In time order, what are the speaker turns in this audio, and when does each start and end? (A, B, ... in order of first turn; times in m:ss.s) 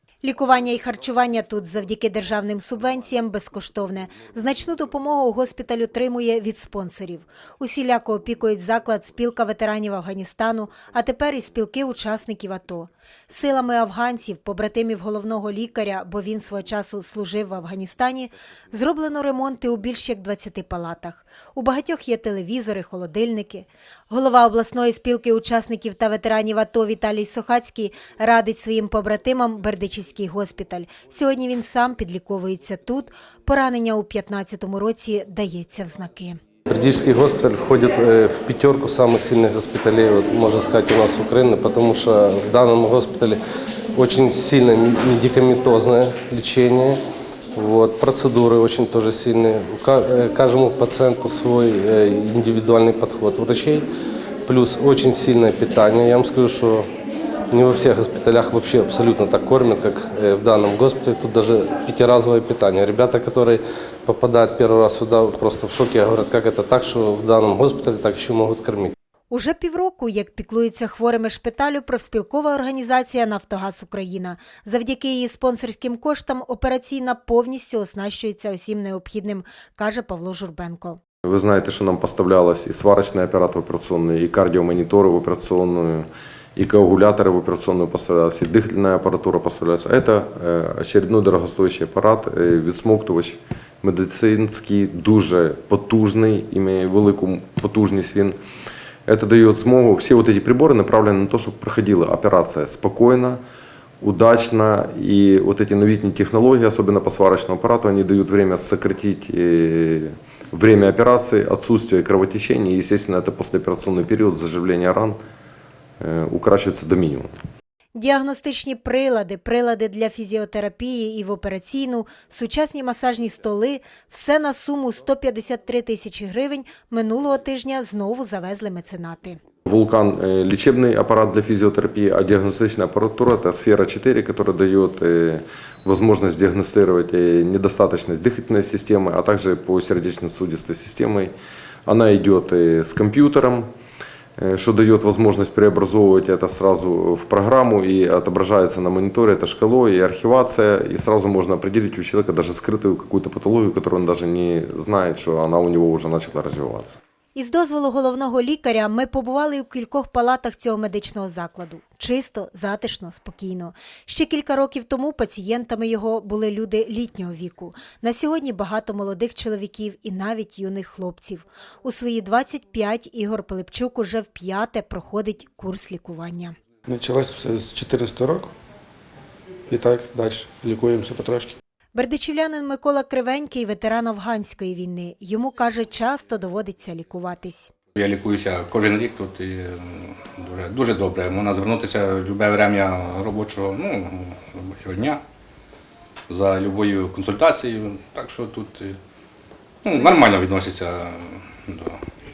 0:00.2-0:36.4 A
0:36.7-0:43.4 B
0:44.0-0:47.0 B
0:47.6-0:53.8 B
0:54.5-0:56.9 B
0:57.5-1:08.9 B
1:09.3-1:21.0 A
1:21.2-1:38.4 C
1:39.1-1:43.4 C
1:44.0-1:55.2 C
1:56.0-1:57.3 C
1:58.0-2:09.4 A
2:09.7-2:21.3 C
2:21.9-2:23.7 C
2:24.4-2:37.0 C
2:37.3-2:56.6 A
2:56.9-2:58.5 D
2:59.7-3:01.6 D
3:02.0-3:07.7 A
3:08.0-3:15.2 E
3:16.3-3:19.0 E
3:19.8-3:22.0 E